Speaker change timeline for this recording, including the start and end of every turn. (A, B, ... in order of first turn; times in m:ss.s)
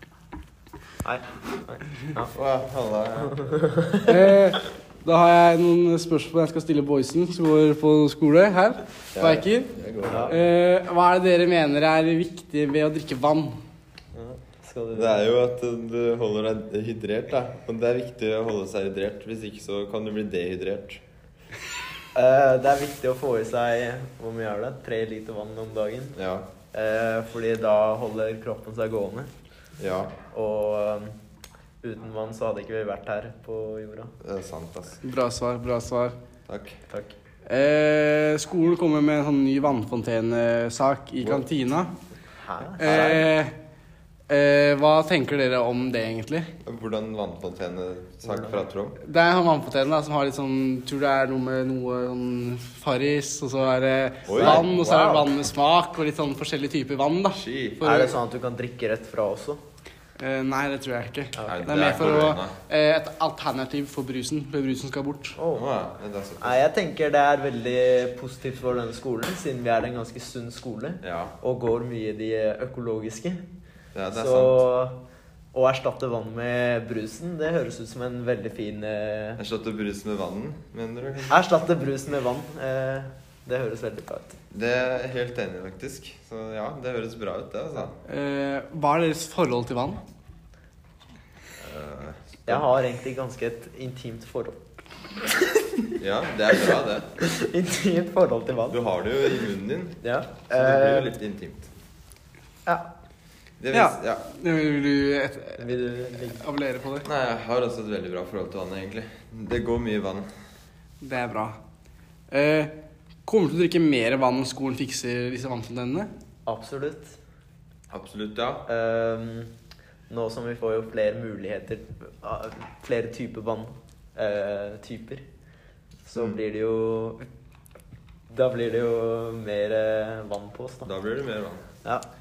0:01.0-0:02.3 A
0:02.3-0:03.6 B
0:03.4-0:04.1 A
0:04.0-0:09.7 C
0:09.1-0:10.4 B
0:10.0-0:10.3 A
0:10.3-0:13.6 C
0:14.2-0:15.3 A
0:14.9-0:21.0 B
0:22.1-0:26.2 A
0:26.2-0:26.5 B
0:26.7-0:29.3 A
0:29.8-0:30.2 B
0:30.3-0:31.1 A
0:31.8-0:34.1 A
0:34.2-0:35.0 B
0:35.0-0:36.2 C
0:36.5-0:36.8 B
0:37.4-0:41.9 C
0:42.4-0:43.2 A
0:42.8-0:43.5 C
0:42.8-0:43.2 B
0:44.3-0:46.5 C
0:46.6-0:49.0 B
0:48.3-0:48.5 A
0:49.0-0:58.1 C
0:54.3-0:54.6 B
0:54.4-0:55.3 A
0:57.3-0:57.9 B
0:57.8-0:59.6 A
1:00.2-1:05.4 C
1:01.4-1:01.7 A
1:01.4-1:02.5 B
1:05.4-1:05.7 A
1:05.5-1:06.6 B
1:06.4-1:13.4 A
1:11.0-1:11.4 B
1:13.9-1:14.7 B
1:14.1-1:15.0 A
1:15.5-1:19.4 A
1:19.4-1:21.4 B
1:21.3-1:24.4 A
1:24.5-1:28.0 B
1:28.1-1:30.0 C
1:31.6-1:32.6 B
1:32.5-1:34.6 A
1:35.5-1:35.8 A
1:36.0-1:37.2 B
1:36.6-1:38.8 A
1:38.7-1:41.7 B
1:40.0-1:41.1 A
1:43.6-1:44.2 B
1:43.7-1:47.1 C
1:45.6-1:46.4 A
1:47.0-1:50.3 B
1:51.0-1:51.6 C
1:52.3-1:52.7 C
1:53.2-1:56.1 C
1:56.4-1:57.2 A
1:57.9-1:58.6 B
1:58.7-1:59.5 A
2:00.1-2:05.2 A
2:06.0-2:07.2 A
2:08.3-2:10.9 A
2:10.8-2:11.6 B